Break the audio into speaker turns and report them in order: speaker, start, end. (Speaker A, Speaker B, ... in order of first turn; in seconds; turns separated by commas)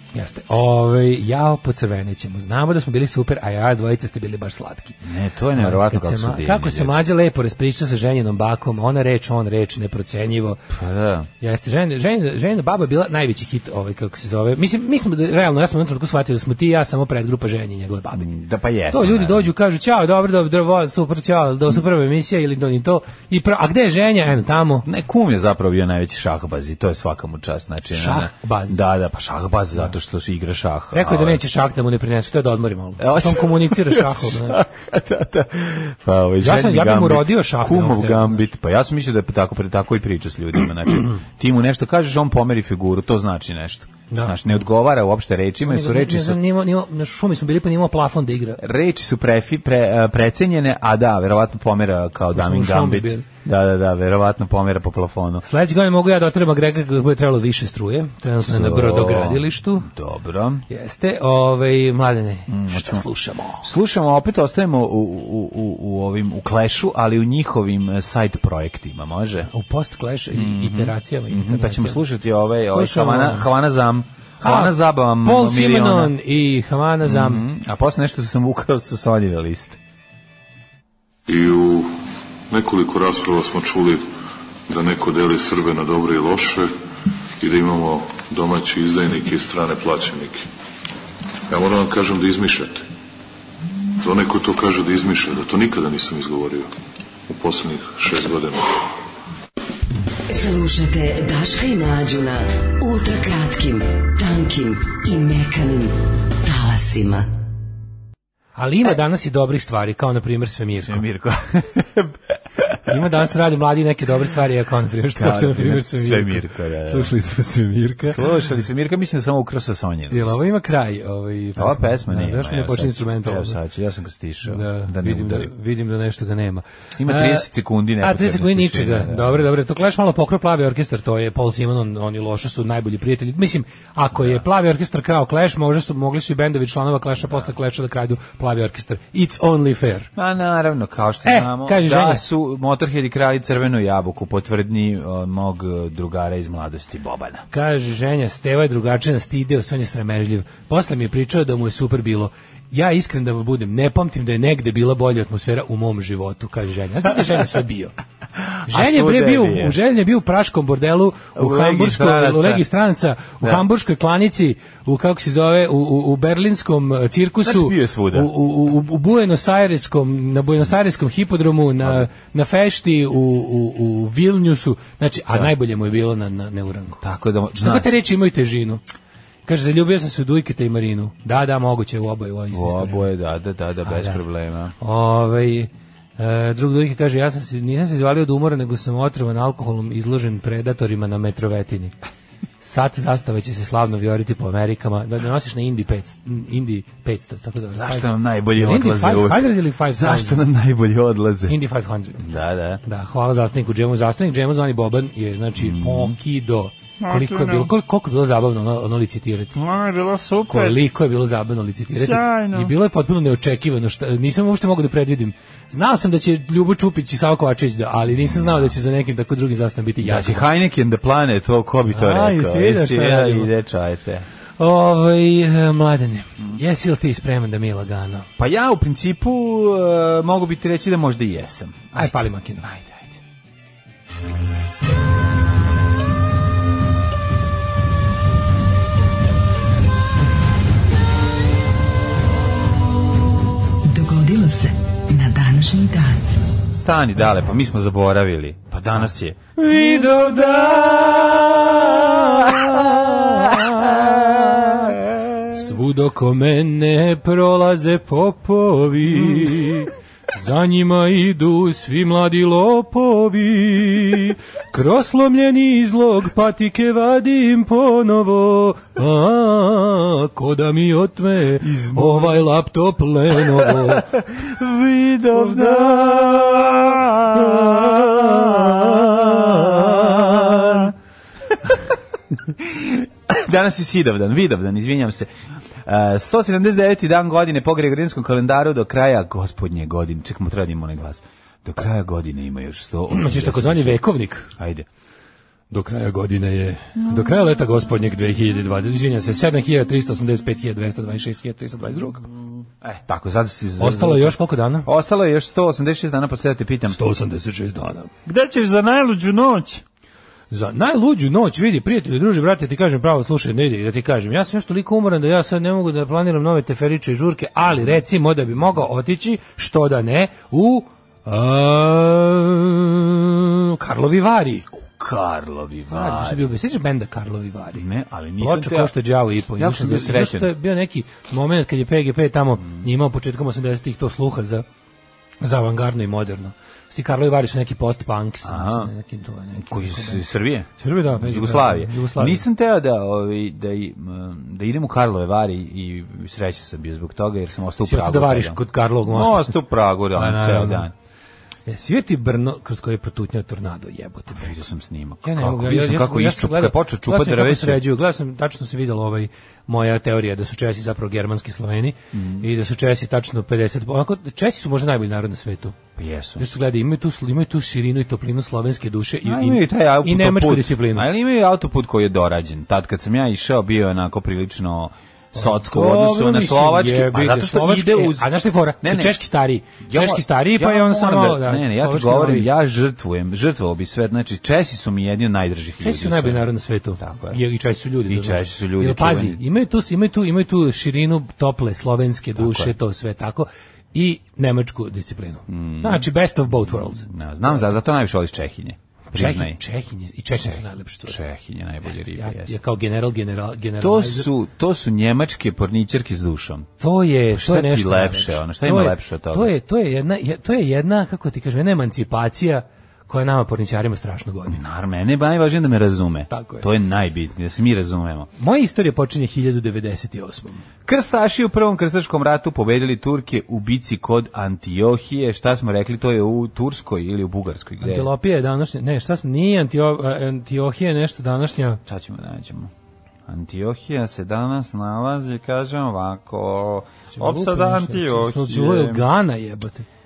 Speaker A: 0.1-5.0, Speaker B: 5.0-7.0, Speaker A: 5.5-10.6, Speaker B: 10.7-11.3, Speaker A: 11.4-18.3, Speaker B: 18.1-19.5, Speaker A: 18.9-24.9, Speaker B: 24.8-31.4, Speaker A: 27.9-28.8, Speaker A: 30.9-34.6, Speaker B: 33.0-46.4, Speaker A: 36.4-38.4, Speaker A: 44.1-44.4, Speaker A: 45.6-48.6, Speaker B: 48.6-55.4, Speaker A: 52.3-53.2, Speaker A: 55.4-59.9, Speaker B: 58.4-60.6, Speaker A: 60.7-63.6, Speaker B: 62.5-63.0, Speaker B: 63.6-69.5, Speaker A: 69.5-72.0, Speaker B: 70.3-76.1, Speaker A: 72.7-73.5, Speaker A: 74.4-77.4, Speaker B: 77.0-79.8, Speaker C: 81.3-81.9, Speaker C: 82.5-84.0, Speaker C: 84.7-86.7, Speaker C: 87.4-90.5, Speaker C: 91.5-92.8, Speaker C: 94.0-96.7, Speaker C: 97.3-98.8, Speaker D: 100.3-107.3, Speaker A: 108.5-111.0, Speaker B: 110.8-112.8, Speaker A: 112.9-118.2, Speaker B: 115.2-117.1, Speaker B: 118.1-120.4, Speaker A: 120.1-123.6, Speaker B: 121.6-125.5, Speaker A: 124.5-127.5, Speaker B: 127.0-129.5, Speaker A: 128.0-140.1, Speaker B: 134.1-134.4, Speaker B: 140.2-147.4, Speaker A: 141.2-142.2, Speaker A: 147.5-157.9, Speaker B: 158.5-159.8, Speaker A: 158.7-177.0, Speaker B: 161.3-162.6, Speaker B: 167.4-168.3, Speaker B: 177.0-177.9, Speaker A: 177.6-178.8, Speaker A: 179.4-183.1, Speaker B: 182.5-184.7, Speaker A: 183.8-184.2, Speaker A: 184.8-191.9, Speaker A: 192.6-200.4, Speaker B: 197.7-201.6, Speaker A: 201.5-202.2, Speaker B: 202.2-202.8, Speaker A: 202.8-209.5, Speaker B: 205.6-206.1, Speaker E: 207.0-207.7, Speaker E: 209.5-210.8, Speaker A: 210.5-220.4, Speaker E: 211.9-212.7, Speaker B: 218.2-218.7, Speaker B: 220.0-224.2, Speaker A: 221.9-223.5, Speaker A: 224.6-228.3, Speaker B: 228.4-233.2, Speaker A: 232.0-232.7, Speaker D: 243.9-246.3, Speaker B: 246.7-249.4, Speaker A: 249.6-254.7, Speaker B: 253.9-254.5, Speaker A: 255.5-274.1, Speaker B: 271.6-272.5, Speaker B: 273.3-280.9, Speaker A: 275.3-276.6, Speaker A: 277.6-280.8, Speaker B: 282.3-285.3, Speaker B: 285.8-294.0, Speaker A: 293.1-294.5, Speaker B: 294.6-294.9, Speaker A: 295.7-302.2, Speaker B: 302.8-307.0, Speaker A: 303.8-304.9, Speaker A: 306.9-308.1, Speaker E: 308.2-309.8, Speaker A: 310.5-324.6, Speaker B: 324.7-326.5, Speaker A: 325.9-327.8, Speaker B: 327.7-328.9, Speaker A: 328.4-334.6, Speaker B: 329.6-330.5, Speaker A: 335.4-340.2, Speaker B: 338.4-338.9, Speaker B: 339.6-350.9, Speaker A: 340.8-342.4, Speaker A: 347.9-349.6, Speaker A: 350.1-350.9, Speaker A: 351.7-354.5, Speaker B: 354.3-357.8, Speaker A: 355.2-365.8, Speaker B: 362.1-362.5, Speaker B: 366.0-366.4, Speaker A: 366.4-371.1, Speaker B: 369.2-379.2, Speaker A: 375.3-382.5, Speaker B: 379.8-386.4, Speaker A: 385.8-397.5, Speaker B: 387.0-387.4, Speaker B: 388.1-389.4, Speaker B: 392.4-392.7, Speaker B: 395.5-399.6, Speaker A: 399.1-401.2, Speaker B: 400.4-402.6, Speaker A: 401.9-404.3, Speaker B: 403.8-406.7, Speaker A: 406.8-414.6, Speaker B: 407.3-409.5, Speaker B: 414.5-418.3, Speaker A: 416.3-416.6, Speaker A: 418.4-420.6, Speaker B: 420.8-428.1, Speaker A: 427.8-431.8, Speaker B: 431.9-432.7, Speaker B: 433.3-439.1, Speaker A: 437.1-439.9